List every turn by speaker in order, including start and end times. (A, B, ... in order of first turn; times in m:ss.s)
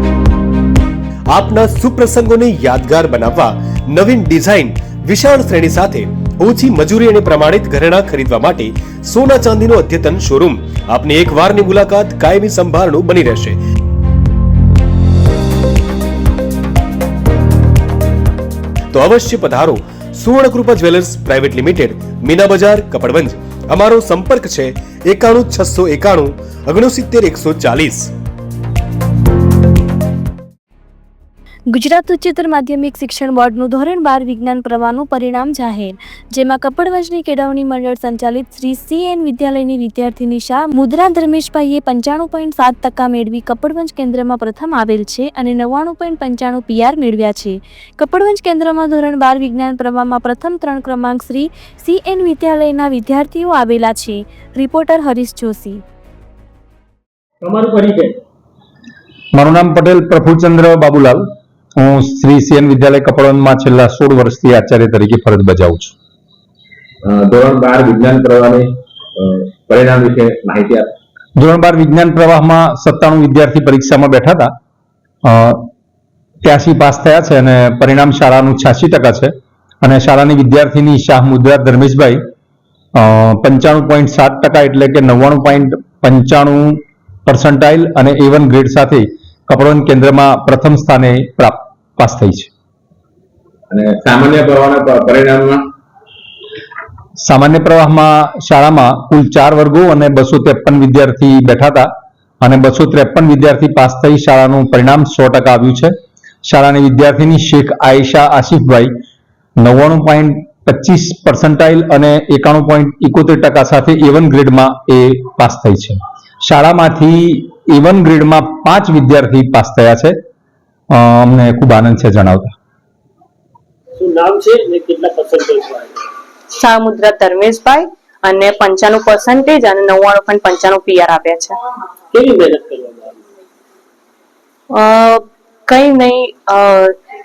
0:01.3-0:13.6 A
0:18.9-0:28.1 A
0:31.7-0:55.8 B
0:57.4-0:58.2 C
0:59.3-1:01.3 D
1:01.8-1:05.9 D
1:07.0-1:10.9 E
1:11.4-1:14.5 D
1:15.2-1:15.7 D
1:16.4-1:19.3 D
1:19.8-1:22.2 D
1:23.0-1:32.5 D
1:33.7-1:35.6 E
1:37.2-1:41.9 D
1:42.4-1:45.9 D
1:46.4-1:48.9 D
1:49.6-2:00.2 D
2:00.9-2:02.5 D
2:04.0-2:06.0 C
2:06.6-2:11.6 F
2:12.1-2:13.2 C
2:14.7-2:17.0 F